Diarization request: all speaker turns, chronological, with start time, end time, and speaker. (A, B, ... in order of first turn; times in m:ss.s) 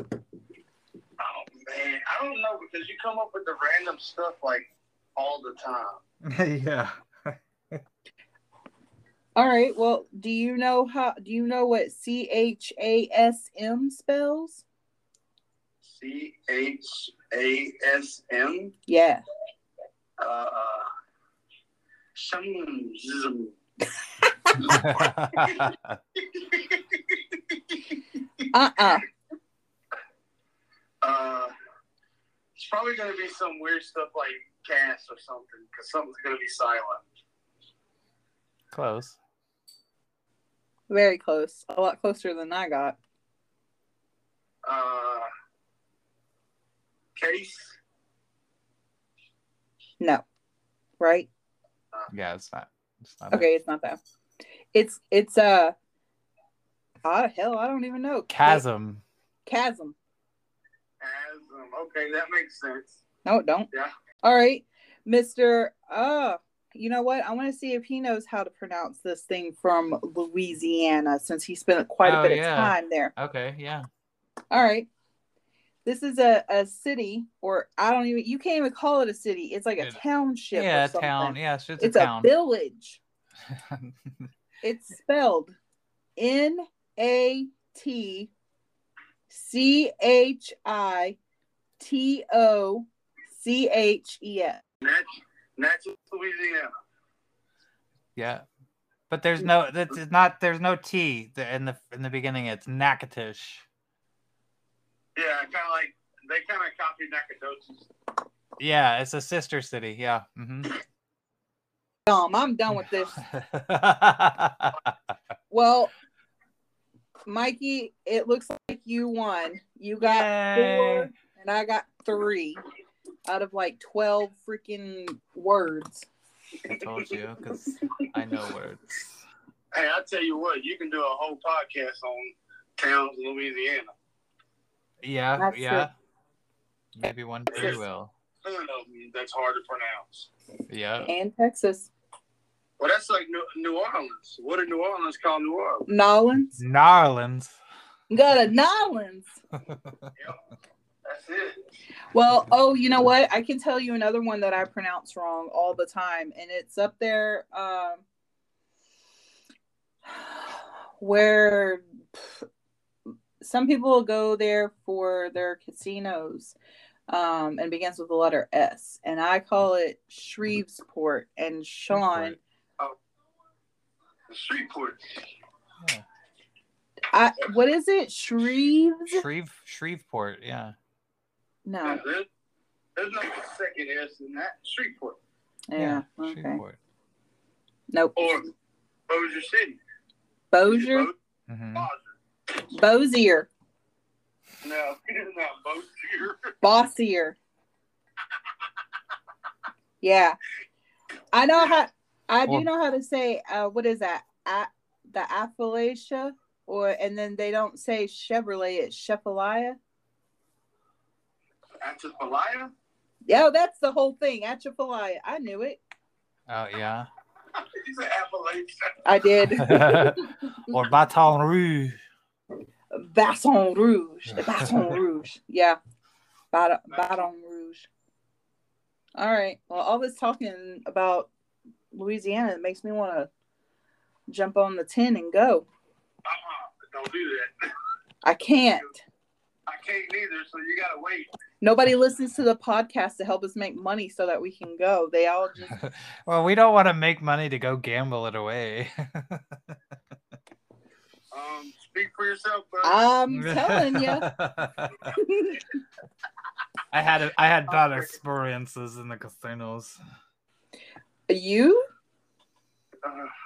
0:01.2-0:06.0 A
0:06.2-0:07.8 B
0:09.4-0:14.6 C
0:15.9-0:18.7 A
0:18.9-0:19.2 C
0:20.2-0:20.9 A
0:22.1-0:23.5 A
0:24.4-0:24.7 C
0:24.6-0:26.0 B
0:25.4-0:25.7 A
0:26.2-0:28.4 A
0:28.5-0:29.1 C
0:31.0-0:31.5 A
0:32.6-0:37.0 A
0:38.7-0:39.2 B
0:40.9-0:43.0 C
0:44.6-0:45.3 A
0:47.2-0:47.8 A
0:51.0-0:51.3 C
0:52.1-0:53.5 B
0:53.3-0:54.0 C
0:54.7-0:55.7 C
0:57.0-0:58.6 C
0:58.3-0:59.0 B
0:59.4-0:59.9 C
1:01.0-1:03.0 A
1:03.2-1:03.7 C
1:04.2-1:13.1 C
1:12.0-1:13.9 B
1:14.5-1:14.9 C
1:15.8-1:23.0 C
1:20.5-1:22.3 B
1:23.5-1:23.9 B
1:24.6-1:25.5 C
1:26.2-1:28.3 C
1:29.3-1:31.2 C
1:31.8-1:34.6 C
1:34.8-1:36.7 A
1:38.2-1:38.4 B
1:39.1-1:43.6 B
1:45.2-1:47.9 A
1:48.6-1:50.8 B
1:52.0-1:53.2 C
1:53.2-1:54.9 B
1:55.5-1:55.9 C
1:57.3-2:02.6 C
2:00.0-2:01.1 B
2:03.2-2:06.0 C
2:06.6-2:09.0 B
2:06.6-2:07.0 A
2:09.7-2:13.9 A
2:15.0-2:15.9 B
2:15.4-2:15.9 C
2:16.9-2:18.1 B
2:17.5-2:17.8 A
2:18.4-2:20.3 A
2:20.7-2:21.1 B
2:21.0-2:21.9 C
2:22.8-2:25.8 A
2:25.9-2:26.6 C
2:26.6-2:27.6 B
2:28.1-2:29.3 C
2:31.0-2:31.6 A
2:32.1-2:38.0 C
2:40.1-2:42.4 C
2:43.4-2:46.5 C
2:47.1-2:52.4 C
2:51.9-2:52.4 B
2:54.3-2:55.1 A
2:55.8-2:56.0 B
2:57.1-2:59.2 C
2:59.1-3:00.7 B
3:01.6-3:02.0 C
3:01.8-3:02.2 A
3:03.0-3:05.2 A
3:05.7-3:06.6 C
3:05.8-3:06.8 B
3:07.9-3:08.2 C
3:08.2-3:08.5 A
3:09.1-3:09.8 A
3:10.5-3:11.1 C
3:10.6-3:11.1 A
3:11.5-3:11.9 B
3:11.7-3:12.1 A
3:12.7-3:13.5 C
3:14.6-3:16.5 A
3:16.6-3:17.4 C
3:20.0-3:20.4 C
3:21.3-3:29.8 C
3:31.8-3:32.7 A
3:33.3-3:35.8 C
3:36.5-3:37.1 B
3:37.5-3:39.0 A
3:39.0-3:40.3 C
3:39.5-3:42.0 B
3:42.9-3:45.8 C
3:44.6-3:44.9 B
3:46.5-3:47.9 C
3:46.9-3:47.2 A
3:49.2-3:51.3 C
3:51.9-3:53.3 C
3:54.3-3:55.6 C
3:56.2-3:57.5 A
3:58.2-3:59.0 C
3:59.7-4:01.3 A
4:01.6-4:05.8 C
4:05.7-4:09.8 B
4:11.3-4:13.1 A
4:12.8-4:14.3 C
4:13.3-4:15.1 B
4:15.1-4:15.6 C
4:16.9-4:20.0 B
4:21.3-4:21.8 C
4:23.0-4:23.3 A